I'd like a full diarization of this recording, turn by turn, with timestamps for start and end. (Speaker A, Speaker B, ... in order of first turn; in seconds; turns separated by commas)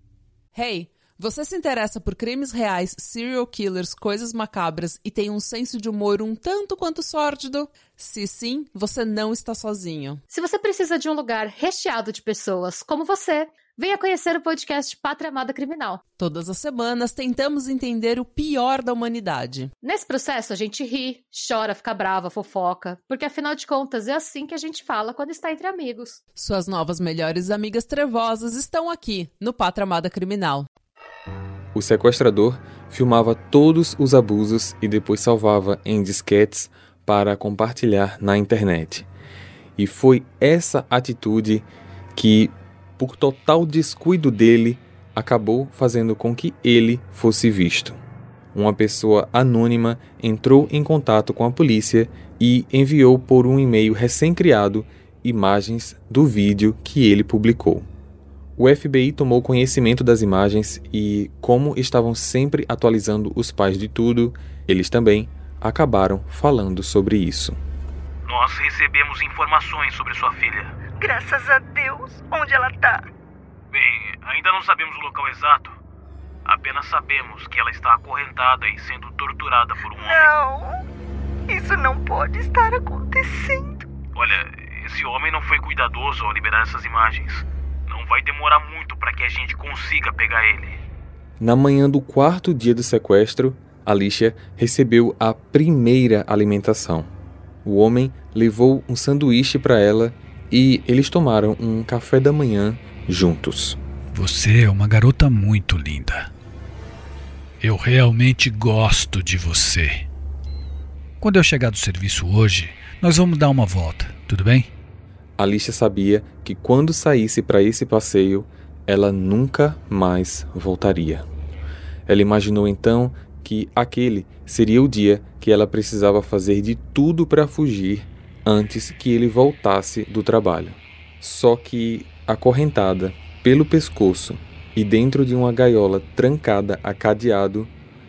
Speaker A: 0.5-10.2, Speaker B: 10.3-16.0, Speaker A: 16.2-19.7, Speaker B: 19.8-26.2, Speaker A: 26.4-30.7, Speaker C: 31.7-39.1, Speaker C: 39.8-48.0, Speaker C: 48.5-57.9, Speaker C: 58.6-67.6, Speaker D: 68.2-70.7, Speaker E: 71.0-73.0, Speaker D: 73.7-75.8, Speaker D: 76.4-80.3, Speaker E: 79.8-80.8, Speaker E: 81.5-83.8, Speaker D: 84.1-90.8, Speaker C: 91.4-97.1, Speaker C: 97.6-103.8, Speaker F: 104.1-106.3, Speaker F: 107.6-110.1, Speaker F: 111.2-114.7, Speaker C: 115.4-121.2, Speaker C: 122.1-137.7